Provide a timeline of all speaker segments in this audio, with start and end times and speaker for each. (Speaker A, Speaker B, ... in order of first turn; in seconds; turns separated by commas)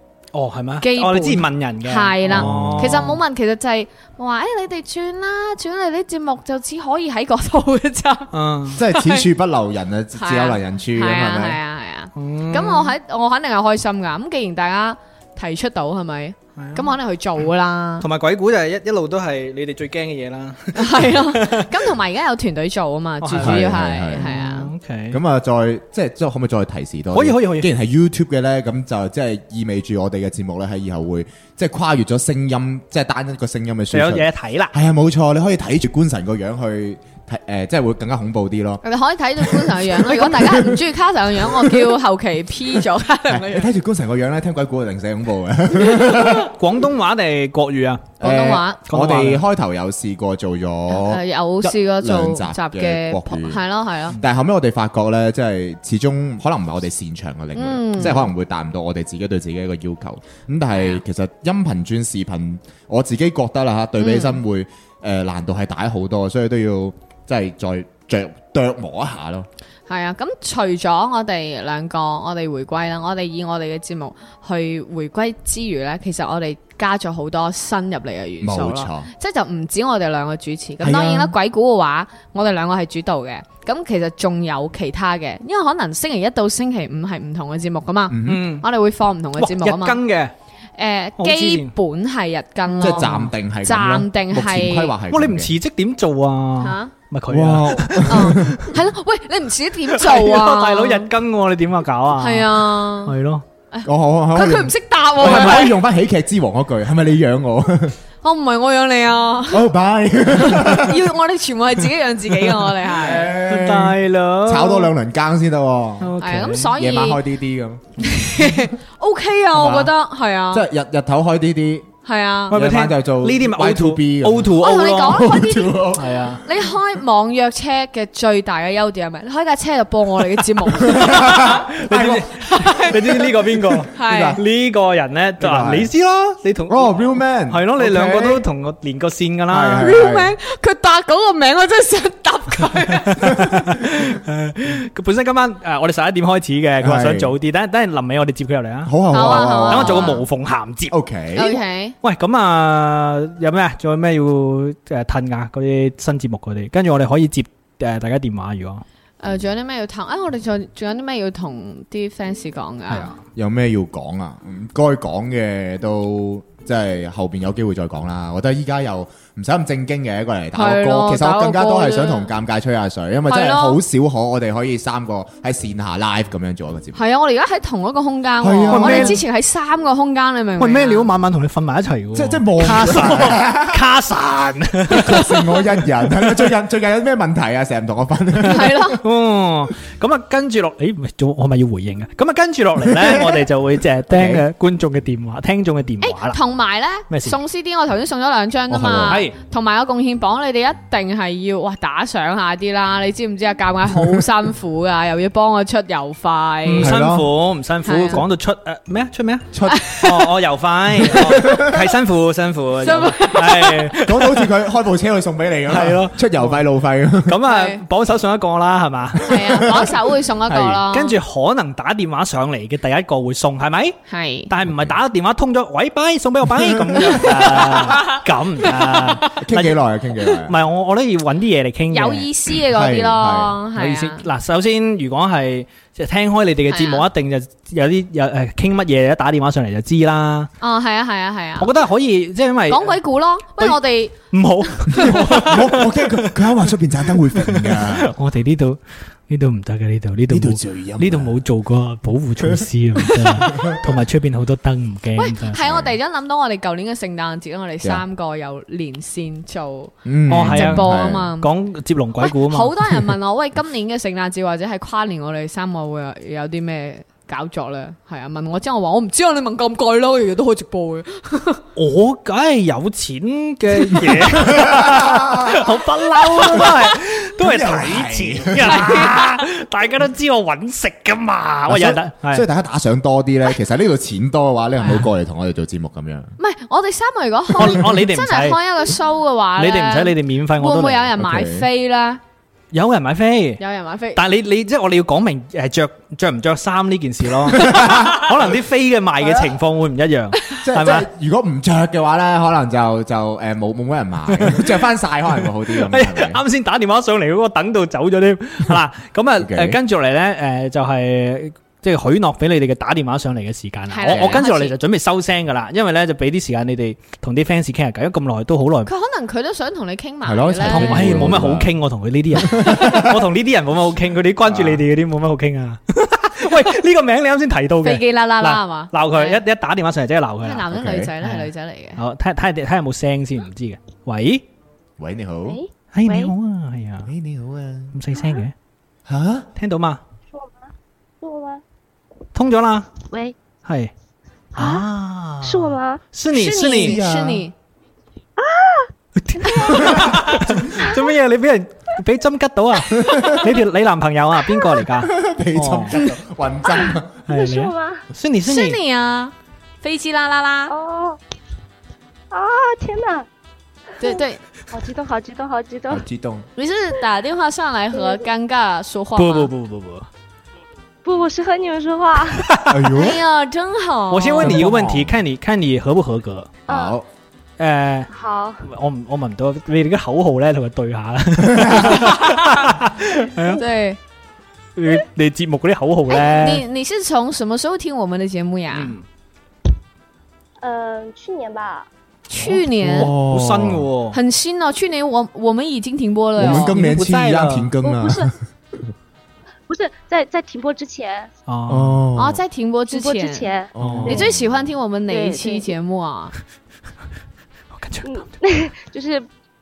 Speaker A: 0.3-3.2, Speaker B: 0.8-9.3, Speaker C: 2.3-3.0, Speaker A: 8.3-8.8, Speaker C: 8.8-11.6, Speaker B: 10.2-18.1, Speaker A: 12.2-12.9, Speaker A: 16.6-16.9, Speaker A: 18.0-21.7, Speaker B: 20.8-24.7, Speaker A: 23.2-25.2, Speaker C: 23.4-24.4, Speaker C: 25.1-38.8, Speaker A: 27.1-27.7, Speaker A: 33.9-34.7, Speaker B: 38.8-43.7, Speaker C: 39.4-40.9, Speaker C: 41.4-42.0, Speaker C: 43.3-46.5, Speaker A: 46.4-48.1, Speaker B: 48.2-48.8, Speaker C: 48.2-53.6, Speaker A: 48.9-49.4, Speaker B: 50.9-54.2, Speaker C: 54.2-69.5, Speaker B: 57.6-58.3, Speaker B: 60.8-61.0, Speaker B: 64.0-64.4, Speaker B: 69.9-90.0, Speaker C: 78.4-79.1, Speaker C: 80.8-81.3, Speaker C: 88.1-88.5, Speaker A: 88.2-88.7, Speaker A: 89.4-90.3, Speaker B: 90.8-94.9, Speaker A: 91.2-91.7, Speaker C: 92.8-95.5, Speaker A: 95.1-98.5, Speaker B: 96.6-96.9, Speaker C: 97.3-98.7, Speaker B: 98.1-101.1, Speaker A: 99.9-103.5, Speaker B: 102.2-103.1, Speaker B: 103.7-105.8, Speaker C: 103.8-108.0, Speaker A: 105.2-105.7, Speaker B: 108.2-109.7, Speaker C: 109.5-111.1, Speaker B: 110.3-113.3, Speaker C: 112.8-116.1, Speaker A: 113.3-114.9, Speaker A: 116.0-116.7, Speaker B: 116.2-117.2, Speaker C: 116.7-118.5, Speaker B: 118.0-120.7, Speaker C: 119.5-119.9, Speaker C: 120.5-121.9, Speaker B: 122.1-122.6, Speaker A: 122.5-125.2, Speaker C: 122.5-126.2, Speaker B: 124.6-133.2, Speaker A: 126.0-126.4, Speaker C: 130.8-132.2, Speaker A: 131.2-140.0, Speaker B: 133.9-134.4, Speaker C: 133.9-134.4, Speaker C: 135.4-135.9, Speaker C: 136.7-138.5, Speaker C: 139.5-140.4, Speaker B: 139.8-143.4, Speaker A: 143.1-151.0, Speaker C: 146.8-147.3, Speaker C: 148.9-150.2, Speaker B: 149.1-150.2, Speaker C: 150.9-151.6, Speaker B: 151.3-152.0, Speaker A: 152.0-158.8, Speaker B: 159.2-163.2, Speaker A: 162.9-163.2, Speaker C: 163.4-177.0, Speaker B: 170.6-172.3, Speaker B: 173.3-173.8, Speaker B: 176.9-181.1, Speaker C: 178.4-179.2, Speaker A: 178.7-179.2, Speaker A: 180.6-186.5, Speaker C: 182.1-183.8, Speaker C: 184.9-189.0, Speaker B: 188.5-189.0, Speaker A: 188.5-196.4, Speaker C: 192.8-193.4, Speaker C: 194.1-194.4, Speaker B: 196.0-206.9, Speaker A: 197.1-197.4, Speaker C: 198.7-199.2, Speaker A: 199.1-199.3, Speaker A: 206.7-214.5, Speaker C: 206.8-207.3, Speaker B: 207.9-208.2, Speaker C: 209.5-209.9, Speaker B: 209.7-210.2, Speaker C: 211.1-211.9, Speaker B: 212.8-213.9, Speaker C: 214.0-217.4, Speaker A: 215.7-216.6, Speaker A: 217.3-219.3, Speaker B: 217.4-217.8, Speaker C: 219.2-219.9, Speaker B: 219.3-221.2, Speaker C: 220.5-220.8, Speaker A: 220.9-224.0, Speaker B: 224.1-224.5, Speaker A: 224.5-229.8, Speaker C: 224.7-224.9, Speaker C: 226.6-227.5, Speaker B: 227.2-228.2, Speaker B: 228.8-229.1, Speaker C: 229.3-230.6, Speaker A: 230.5-232.3, Speaker B: 231.9-234.2, Speaker C: 232.7-233.6, Speaker A: 233.8-240.5, Speaker B: 236.7-237.1, Speaker B: 240.6-241.7, Speaker A: 241.6-242.9, Speaker B: 242.7-244.2, Speaker A: 244.3-246.3, Speaker B: 244.9-245.2, Speaker C: 244.9-248.1, Speaker A: 247.3-255.6, Speaker C: 250.3-251.4, Speaker C: 253.4-253.8, Speaker B: 255.2-261.5, Speaker C: 255.6-255.9, Speaker C: 260.1-261.3, Speaker A: 260.3-262.7, Speaker B: 262.2-271.6, Speaker A: 271.8-282.5, Speaker C: 274.2-275.7, Speaker C: 277.4-279.2, Speaker B: 278.6-279.4, Speaker C: 281.7-286.3, Speaker B: 286.4-292.2, Speaker A: 287.6-288.6, Speaker A: 289.6-291.1, Speaker C: 291.2-291.7, Speaker A: 292.7-293.6, Speaker B: 293.6-294.2, Speaker A: 294.1-301.1, Speaker C: 297.5-298.3, Speaker C: 300.6-306.4, Speaker A: 304.3-304.6, Speaker A: 305.7-318.9, Speaker C: 309.4-309.8, Speaker B: 313.9-314.8, Speaker C: 314.1-314.4, Speaker B: 318.9-321.3, Speaker C: 320.2-321.7, Speaker A: 320.7-330.6, Speaker C: 322.3-323.2, Speaker C: 324.4-324.9, Speaker B: 327.8-329.4, Speaker B: 330.4-332.0, Speaker C: 330.7-331.1, Speaker A: 331.2-334.4, Speaker C: 335.0-335.6, Speaker D: 335.5-336.3, Speaker A: 335.9-337.1, Speaker C: 337.0-337.9, Speaker A: 337.9-338.5, Speaker D: 338.2-338.4, Speaker C: 339.1-339.5, Speaker A: 339.6-340.0, Speaker D: 340.3-340.7, Speaker D: 341.2-341.6, Speaker A: 342.4-342.9, Speaker D: 343.1-343.4, Speaker A: 343.6-343.9, Speaker D: 344.6-344.9, Speaker A: 344.6-347.0, Speaker D: 345.4-347.0, Speaker B: 346.8-347.5, Speaker C: 346.8-347.5, Speaker D: 348.4-348.9, Speaker A: 349.2-356.0, Speaker D: 349.4-349.8, Speaker B: 349.6-349.9, Speaker C: 353.0-353.4, Speaker C: 354.9-357.2, Speaker A: 357.3-358.8, Speaker D: 357.3-358.1, Speaker B: 358.5-360.7, Speaker D: 360.7-361.2, Speaker D: 362.3-363.3, Speaker B: 364.0-364.4, Speaker D: 364.7-366.0, Speaker C: 365.9-366.5, Speaker B: 366.6-369.5, Speaker D: 367.9-368.2, Speaker A: 369.2-370.1, Speaker D: 371.0-372.6, Speaker A: 372.4-372.7, Speaker C: 372.7-373.2, Speaker B: 372.9-374.7, Speaker A: 374.1-376.5, Speaker C: 374.4-375.2, Speaker D: 376.7-377.0, Speaker C: 376.7-377.1, Speaker A: 377.6-378.1, Speaker D: 378.1-378.6, Speaker A: 378.6-383.6, Speaker B: 383.6-384.0, Speaker A: 384.8-386.6, Speaker B: 386.1-388.9, Speaker A: 388.7-389.1, Speaker D: 390.6-391.9, Speaker B: 392.3-393.1, Speaker C: 392.4-393.9, Speaker A: 392.9-394.2, Speaker B: 394.1-396.8, Speaker C: 396.4-398.3, Speaker A: 396.4-397.7, Speaker D: 397.8-398.3, Speaker D: 399.7-401.3, Speaker A: 401.5-402.0, Speaker C: 401.7-402.4, Speaker B: 402.2-403.5, Speaker D: 402.9-404.3, Speaker C: 403.8-404.5, Speaker A: 403.8-404.2, Speaker B: 404.1-406.3, Speaker D: 405.1-405.7, Speaker A: 407.7-408.3, Speaker D: 408.0-409.3